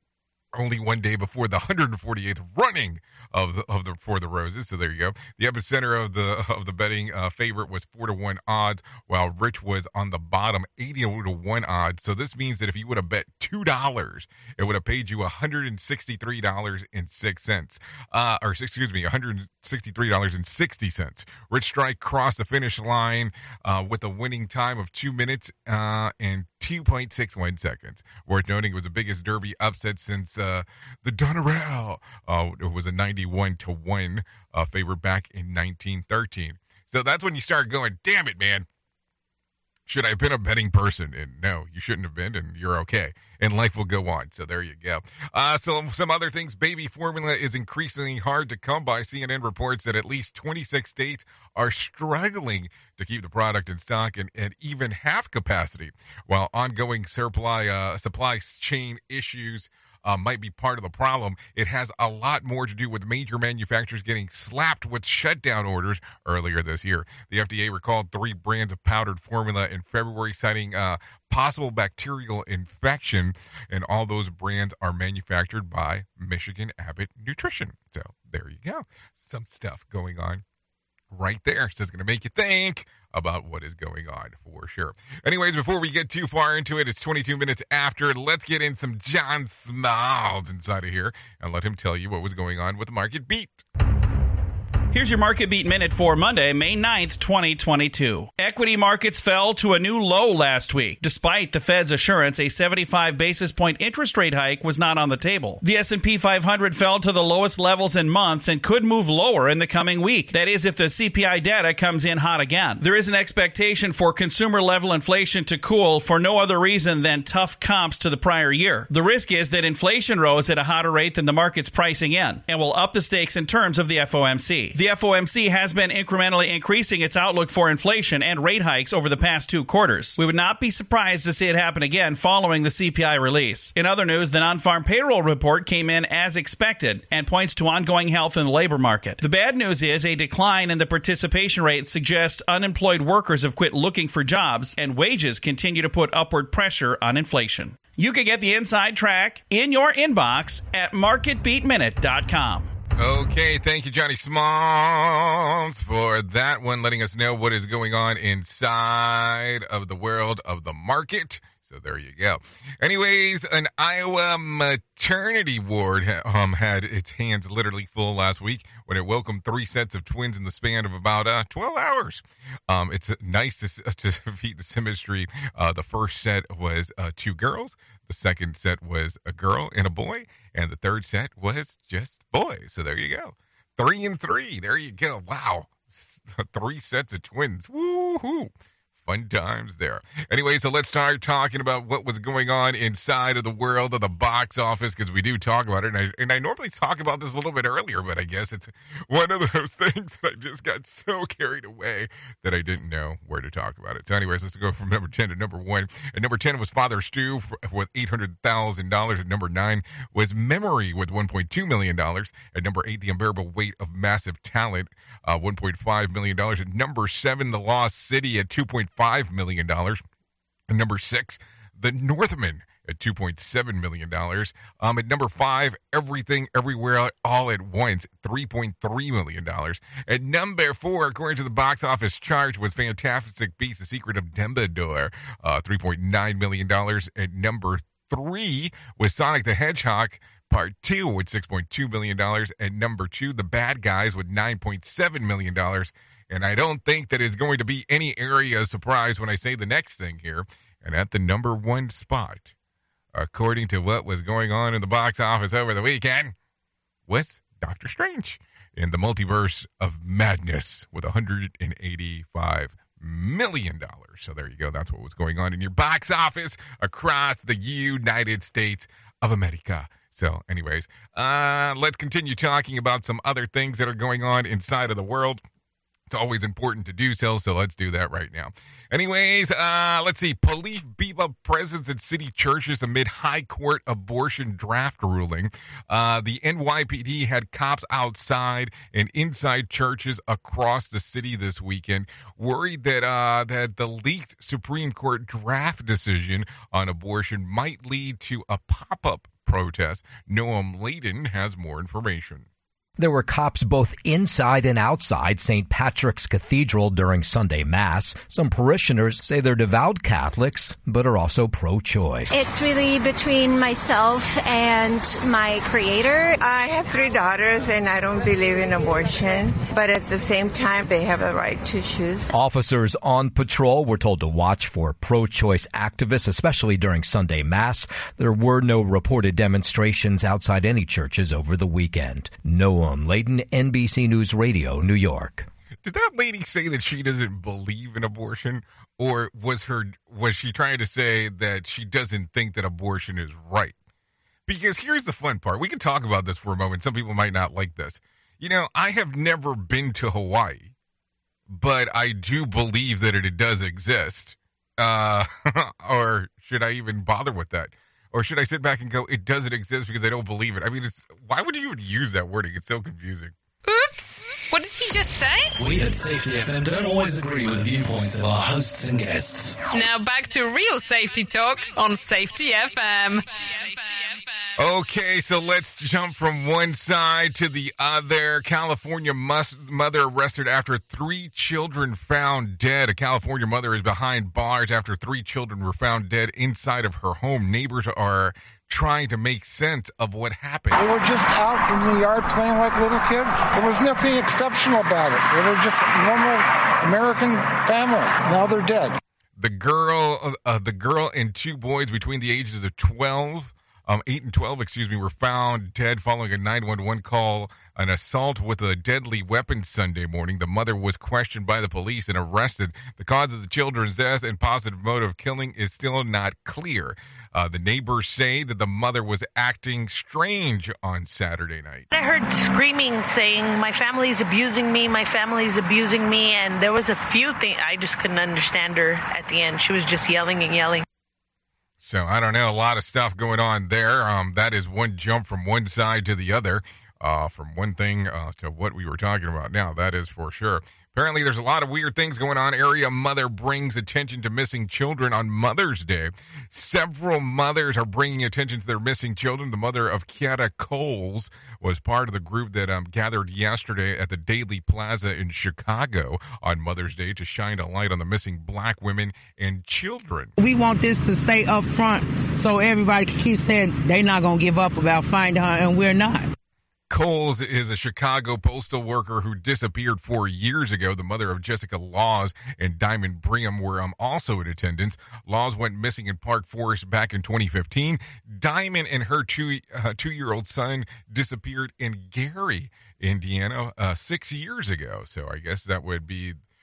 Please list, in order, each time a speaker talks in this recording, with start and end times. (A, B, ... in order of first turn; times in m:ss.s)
0:00.5-0:38.6 A
0:39.9-1:20.4 A
1:21.1-1:33.6 A
1:34.9-2:32.7 B
2:33.0-3:40.0 A
3:40.7-4:12.5 A
4:13.1-4:16.3 A
4:17.1-4:35.4 A
4:36.1-5:02.5 A
5:03.0-5:12.3 C
5:12.3-5:16.2 D
5:16.4-5:22.3 E
5:22.3-5:35.4 C
5:35.8-5:43.8 A
5:44.5-5:50.7 A
5:51.5-6:03.3 A
6:03.7-6:05.5 F
6:05.6-6:09.5 G
6:09.7-6:13.8 F
6:14.6-6:30.8 A
6:31.0-6:31.6 H
6:32.2-6:35.0 H
6:37.0-6:38.8 H
6:39.4-7:01.9 A
7:01.9-7:10.8 I
7:11.8-7:40.3 A
7:40.4-7:46.3 J
7:46.9-8:06.4 A